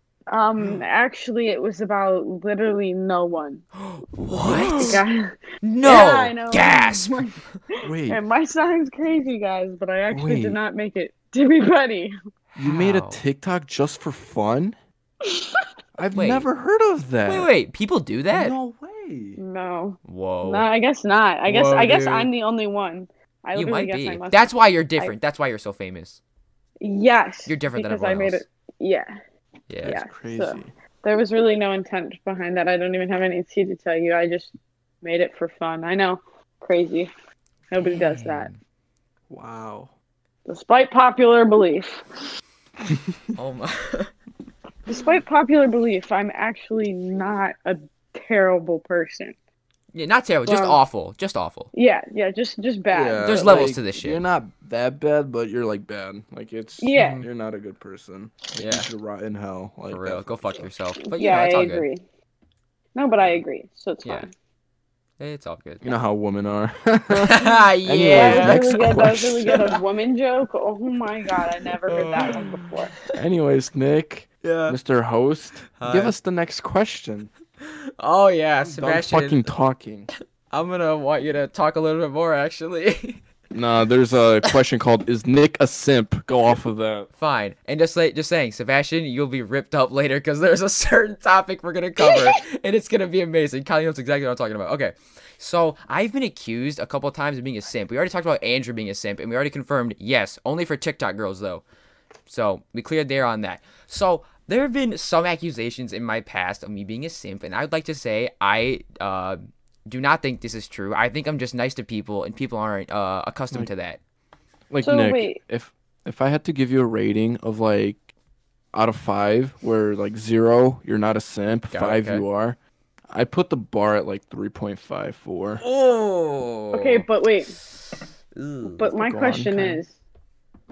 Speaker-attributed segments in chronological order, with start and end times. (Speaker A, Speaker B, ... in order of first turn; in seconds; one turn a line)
Speaker A: 0.3-3.7
Speaker B: 3.8-5.0
Speaker C: 4.3-5.0
Speaker A: 4.8-7.4
Speaker B: 5.6-7.6
Speaker C: 7.8-8.2
Speaker A: 8.0-12.2
Speaker C: 10.1-10.6
Speaker B: 12.5-13.2
Speaker C: 12.6-14.8
Speaker A: 15.2-15.7
Speaker C: 16.0-17.5
Speaker B: 16.1-16.5
Speaker B: 17.2-18.6
Speaker C: 18.3-19.4
Speaker A: 19.4-25.1
Speaker B: 20.1-20.7
Speaker B: 21.5-22.3
Speaker B: 23.6-26.2
Speaker A: 26.8-29.1
Speaker B: 27.5-28.4
Speaker B: 29.7-30.0
Speaker C: 29.8-30.7
Speaker A: 29.8-37.1
Speaker A: 37.7-38.5
Speaker B: 37.8-38.6
Speaker C: 39.3-39.9
Speaker A: 40.5-42.0
Speaker B: 43.4-44.1
Speaker A: 44.9-49.4
Speaker B: 49.9-51.7
Speaker A: 50.5-50.8
Speaker A: 51.7-53.7
Speaker C: 52.9-60.7
Speaker B: 53.2-54.2
Speaker A: 56.8-57.2
Speaker B: 57.0-57.2
Speaker B: 58.5-58.9
Speaker B: 59.9-61.9
Speaker A: 61.1-62.0
Speaker A: 63.0-64.3
Speaker B: 65.2-65.9
Speaker C: 65.8-69.6
Speaker B: 67.1-69.8
Speaker A: 68.0-72.9
Speaker B: 71.3-73.1
Speaker C: 73.1-77.3
Speaker B: 74.4-74.8
Speaker B: 75.7-76.2
Speaker B: 77.6-79.5
Speaker C: 78.7-80.1
Speaker B: 80.5-83.2
Speaker C: 83.5-87.1
Speaker B: 87.2-101.6
Speaker A: 92.0-92.3
Speaker B: 102.3-114.0
Speaker C: 114.7-118.1
Speaker A: 114.8-115.4
Speaker C: 118.7-122.6
Speaker B: 121.7-122.3
Speaker C: 123.1-125.6
Speaker B: 125.6-127.1
Speaker A: 126.7-127.6
Speaker B: 128.3-128.9
Speaker A: 128.6-130.0
Speaker C: 128.9-129.8